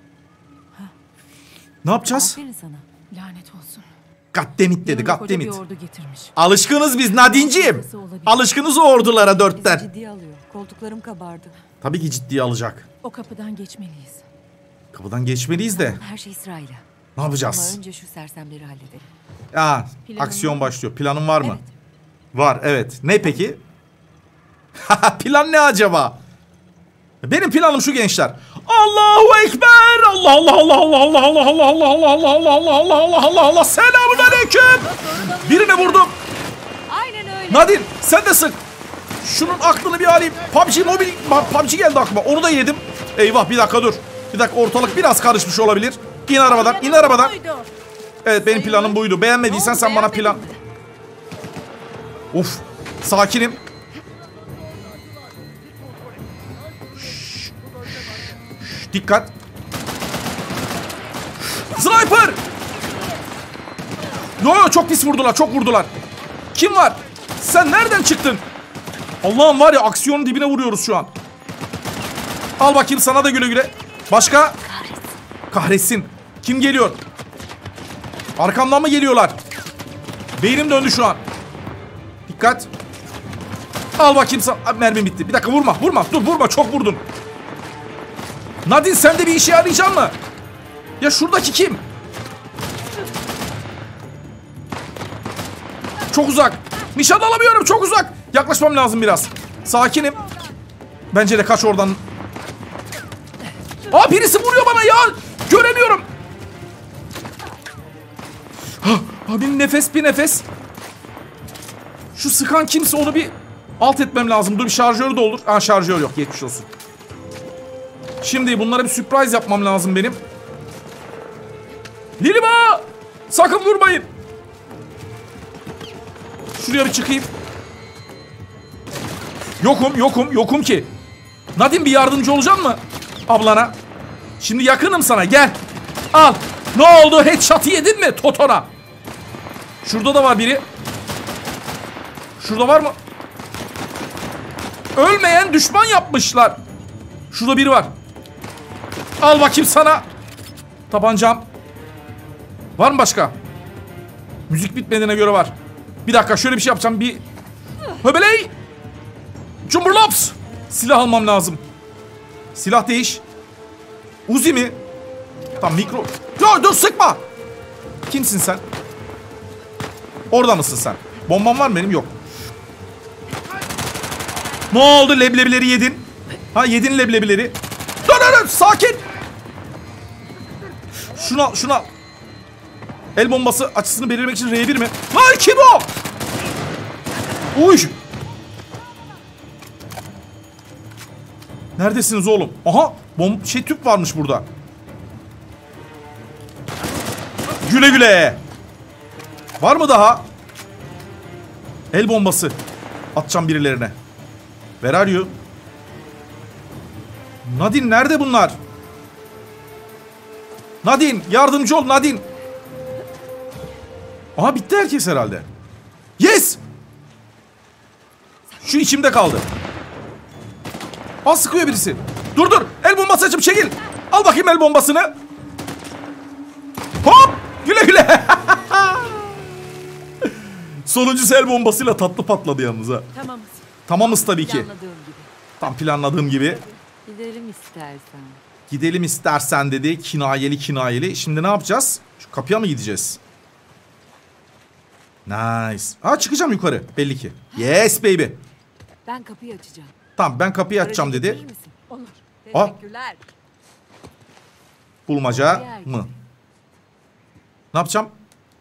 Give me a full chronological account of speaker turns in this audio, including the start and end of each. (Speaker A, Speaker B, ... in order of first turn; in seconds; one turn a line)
Speaker A: 1.8-2.4
Speaker B: 2.1-2.9
Speaker C: 3.1-3.9
Speaker A: 4.3-5.6
Speaker C: 4.8-6.3
Speaker A: 6.3-9.8
Speaker C: 7.1-8.4
Speaker B: 9.2-11.6
Speaker A: 11.8-12.9
Speaker C: 13.0-14.2
Speaker A: 14.9-16.0
Speaker B: 15.7-16.8
Speaker A: 17.1-17.8
Speaker B: 17.4-19.1
Speaker A: 19.5-21.6
Speaker C: 20.1-20.7
Speaker B: 21.4-21.7
Speaker A: 22.3-23.6
Speaker A: 24.8-26.2
Speaker A: 27.2-36.1
Speaker C: 34.1-36.1
Speaker B: 36.9-37.8
Speaker A: 37.5-38.6
Speaker A: 39.2-47.4
Speaker C: 46.4-47.7
Speaker A: 48.2-50.4
Speaker B: 48.6-50.6
Speaker A: 52.3-53.6
Speaker A: 57.0-57.5
Speaker A: 58.6-59.3
Speaker A: 61.5-62.4
Speaker A: 64.4-65.9
Speaker A: 66.5-68.4
Speaker A: 69.2-71.1
Speaker A: 72.6-74.6
Speaker B: 74.5-75.1
Speaker A: 75.5-77.0
Speaker A: 78.4-79.4
Speaker A: 80.4-81.2
Speaker A: 82.3-82.7
Speaker A: 84.0-87.0
Speaker A: 88.7-90.1
Speaker A: 91.0-91.8
Speaker A: 96.1-100.2
Speaker A: 101.1-102.0
Speaker A: 103.9-106.1
Speaker A: 108.8-110.4
Speaker A: 112.1-116.7
Speaker A: 118.2-120.2
Speaker A: 122.2-124.1
Speaker A: 126.6-127.3
Speaker A: 129.6-130.9
Speaker A: 131.6-133.8
Speaker A: 134.4-138.7
Speaker A: 139.8-140.7
Speaker A: 142.4-142.9
Speaker A: 144.9-146.6
Speaker A: 147.3-147.9
Speaker A: 149.2-150.1
Speaker A: 150.9-151.5
Speaker A: 152.8-153.3
Speaker A: 154.5-155.5
Speaker A: 156.1-157.2
Speaker A: 158.0-158.5
Speaker A: 159.7-161.6
Speaker A: 162.6-163.2
Speaker A: 164.3-164.8
Speaker A: 165.6-167.2
Speaker A: 168.1-168.6
Speaker A: 170.3-172.1
Speaker A: 174.7-179.0
Speaker A: 181.1-181.9
Speaker A: 183.2-185.9
Speaker A: 187.5-188.0
Speaker A: 191.8-194.5
Speaker A: 197.6-198.4
Speaker A: 199.6-200.3
Speaker A: 201.9-202.6
Speaker A: 203.1-203.9
Speaker A: 204.8-205.3
Speaker A: 207.4-208.6
Speaker A: 210.8-212.2
Speaker A: 214.3-215.5
Speaker A: 216.2-216.6
Speaker A: 218.6-219.5
Speaker A: 221.2-225.1
Speaker A: 227.0-229.4
Speaker A: 230.2-233.1
Speaker C: 233.1-233.7
Speaker A: 233.9-234.7
Speaker B: 234.0-235.3
Speaker A: 235.6-236.6
Speaker C: 236.4-236.8
Speaker B: 237.0-238.4
Speaker A: 238.7-243.2
Speaker A: 245.2-248.4
Speaker B: 247.5-247.8
Speaker B: 249.0-250.0
Speaker A: 250.2-251.4
Speaker B: 250.8-251.8
Speaker C: 251.9-252.2
Speaker B: 252.4-253.2
Speaker A: 255.1-256.1
Speaker B: 255.3-256.1
Speaker A: 257.7-258.1